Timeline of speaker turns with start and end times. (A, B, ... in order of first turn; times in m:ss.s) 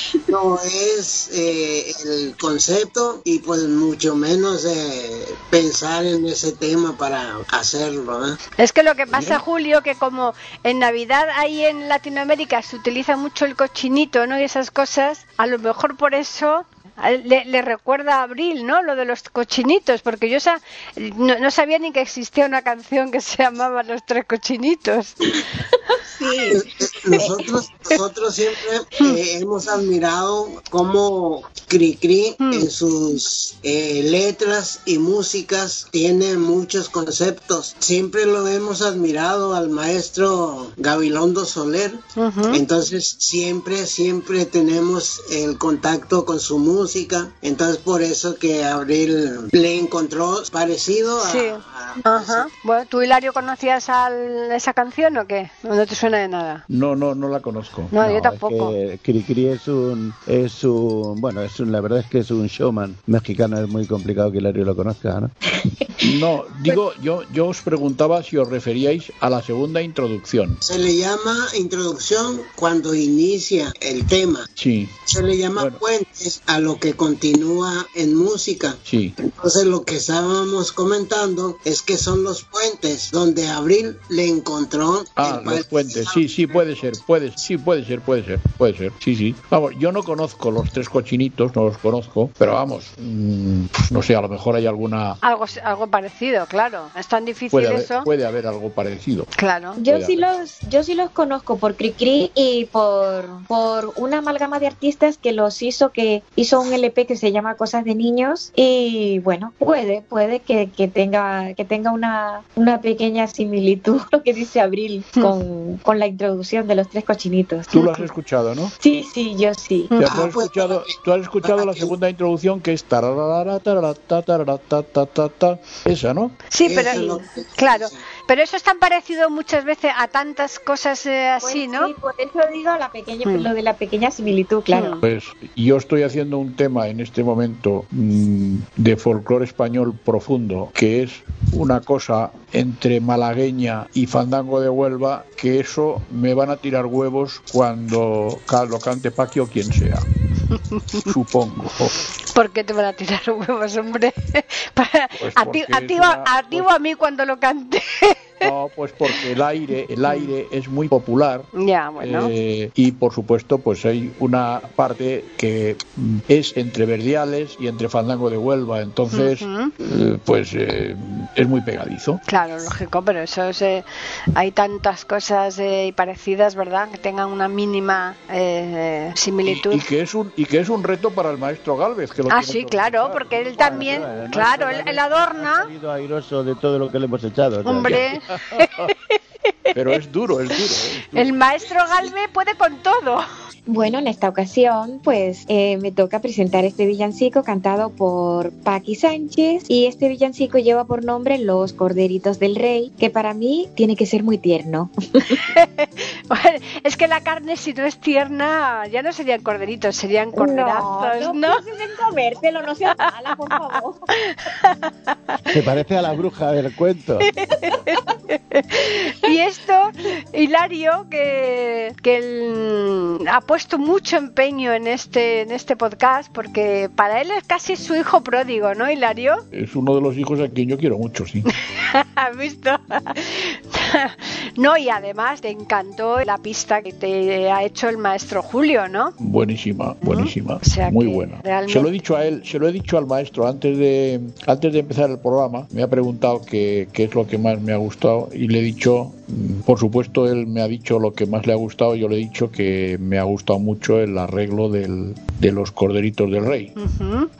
0:00.3-0:08.4 A
0:08.6-0:26.6 B
0:26.5-0:52.5 A
0:42.2-0:42.6 B
0:51.2-0:56.6 B
0:56.7-0:58.0 C
0:57.9-0:58.8 B
0:58.0-1:05.3 D
1:06.0-1:10.6 C
1:10.6-1:14.5 A
1:14.6-1:15.0 C
1:15.1-1:26.2 A
1:18.9-1:19.2 C
1:25.2-1:35.2 C
1:35.2-1:38.1 B
1:37.5-1:39.3 C
1:39.4-1:39.8 B
1:39.8-1:57.8 E
1:39.9-1:40.3 C
1:57.7-1:58.8 C
1:58.8-2:00.0 E
2:00.0-2:06.4 C
2:00.0-2:01.9 A
2:06.5-2:11.9 B
2:06.6-2:08.0 A
2:11.4-2:15.0 E
2:14.7-2:15.0 B
2:15.0-2:30.0 C
2:30.7-2:31.1 B
2:31.0-2:32.0 C
2:32.3-2:38.5 B
2:35.2-2:36.7 C
2:38.4-2:52.2 C
2:41.6-2:42.3 B
2:49.1-2:49.7 B
2:52.3-2:59.8 B
2:59.5-3:04.1 C
3:02.3-3:05.7 B
3:03.6-3:08.1 D
3:07.6-3:08.9 B
3:07.8-3:08.9 C
3:09.7-3:11.3 C
3:11.2-3:13.2 B
3:13.7-3:25.4 E
3:25.3-3:31.6 B
3:30.4-3:34.1 E
3:34.3-3:35.1 B
3:35.5-3:37.3 D
3:37.3-3:49.4 B
3:49.5-3:51.5 C
3:51.6-3:59.2 B
3:59.2-4:16.8 C
4:00.0-4:01.9 B
4:16.8-4:17.3 B